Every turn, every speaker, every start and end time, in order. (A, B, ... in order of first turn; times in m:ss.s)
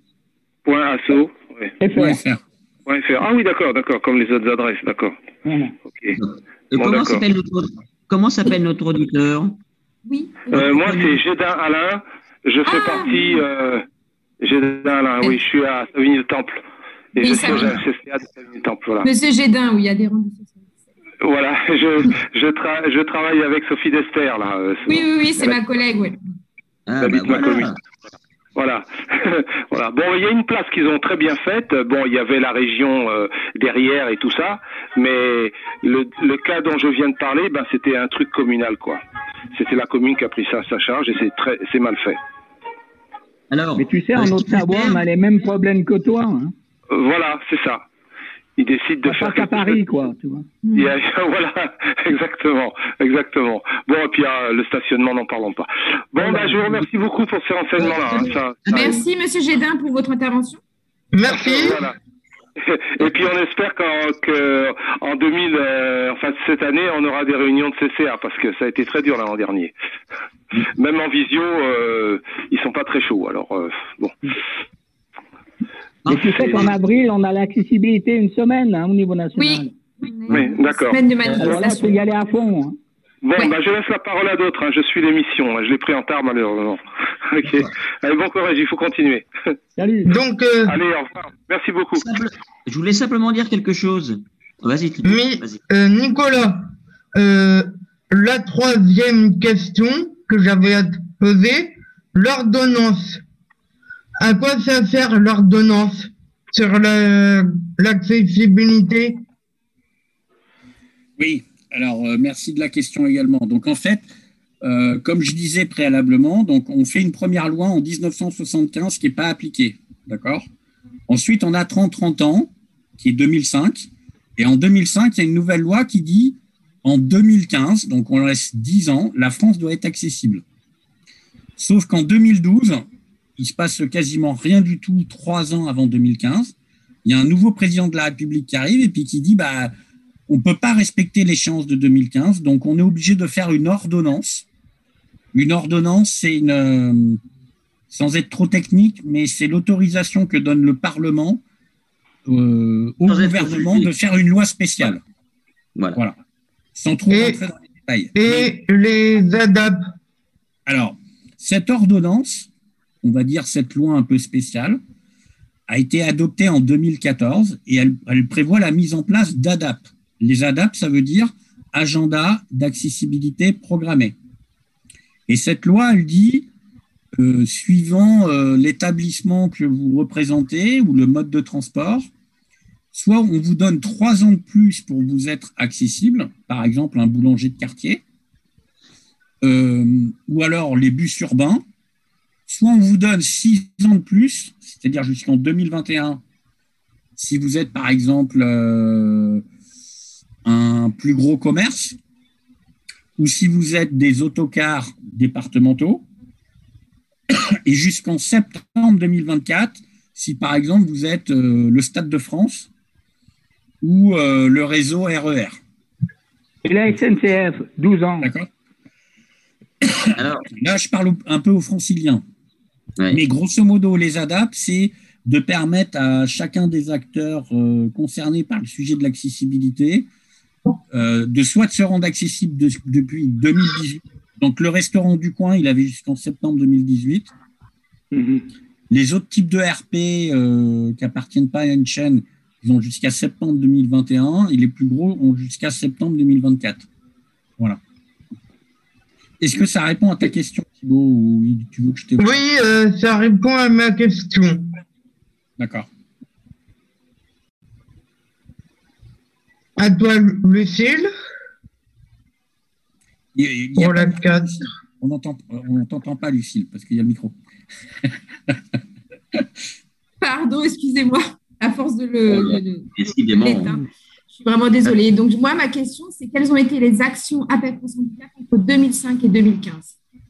0:00.7-0:01.7 A
0:01.8-0:02.2 B
0:02.0-0:02.4 C
0:02.9-0:05.2 A
0:05.4-0:05.8 B
0:06.2-0:09.6 D
0:06.8-0:07.2 A
0:10.1-0:10.9 E
0:10.5-0:13.8 A
0:10.5-0:11.2 D
0:12.7-0:13.5 E
0:14.4-0:16.6 A
0:17.2-0:17.8 E
0:17.2-0:19.1 A
0:17.3-0:17.8 D
0:19.0-0:20.6 E
0:21.2-0:25.0 A
0:24.9-0:26.2 E
0:26.9-0:27.8 D
0:27.0-0:27.7 A
0:28.6-0:39.0 A
0:39.5-0:42.2 A
0:43.5-0:45.0 D
0:43.8-0:46.5 B
0:46.9-0:47.8 A
0:48.6-0:49.8 A
0:49.0-0:50.5 B
0:50.6-0:50.9 E
0:50.8-0:59.0 A
0:56.2-0:56.8 B
0:57.8-0:58.9 D
0:58.7-1:00.6 E
1:01.1-1:01.8 F
1:01.3-1:01.9 A
1:03.0-1:09.7 A
1:10.6-1:14.2 A
1:16.0-1:16.8 D
1:16.1-1:19.7 B
1:19.3-1:22.0 E
1:20.3-1:21.0 A
1:21.2-1:21.6 D
1:21.4-1:22.8 B
1:23.2-1:26.8 A
1:27.3-1:29.3 A
1:29.8-1:30.1 B
1:30.1-1:30.8 F
1:30.7-1:32.1 A
1:32.0-1:35.6 D
1:35.1-1:43.2 F
1:44.2-1:49.2 F
1:51.2-1:54.1 C
1:54.6-2:00.5 C
2:01.1-2:10.4 C
2:11.6-2:12.8 C
2:13.4-2:16.5 C
2:17.0-2:19.7 C
2:20.3-2:24.5 C
2:25.3-2:27.2 C
2:27.9-2:31.4 C
2:32.3-2:35.0 C
2:33.1-2:33.9 D
2:36.8-2:38.5 C
2:37.1-2:37.4 F
2:38.2-2:39.8 F
2:40.7-2:42.5 C
2:43.0-2:44.8 C
2:45.7-2:54.2 C
2:55.3-2:56.5 C
2:57.2-3:02.1 C
3:02.9-3:08.0 C
3:09.4-3:11.6 C
3:12.5-3:16.2 C
3:17.2-3:19.4 C
3:20.4-3:22.0 C
3:23.2-3:26.0 C
3:27.7-3:32.7 C
3:33.8-3:35.6 C
3:36.6-3:38.3 B
3:38.2-3:38.5 C
3:39.8-3:42.2 C
3:40.2-3:40.5 D
3:43.1-3:50.1 C
3:50.9-3:57.3 C
3:58.1-3:58.4 B
3:58.9-4:06.9 C
4:09.4-4:12.4 C
4:12.2-4:14.6 F
4:15.6-4:15.9 C
4:19.8-4:21.1 F
4:23.4-4:27.4 C
4:23.8-4:24.7 F
4:30.2-4:39.9 E
4:32.3-4:33.8 D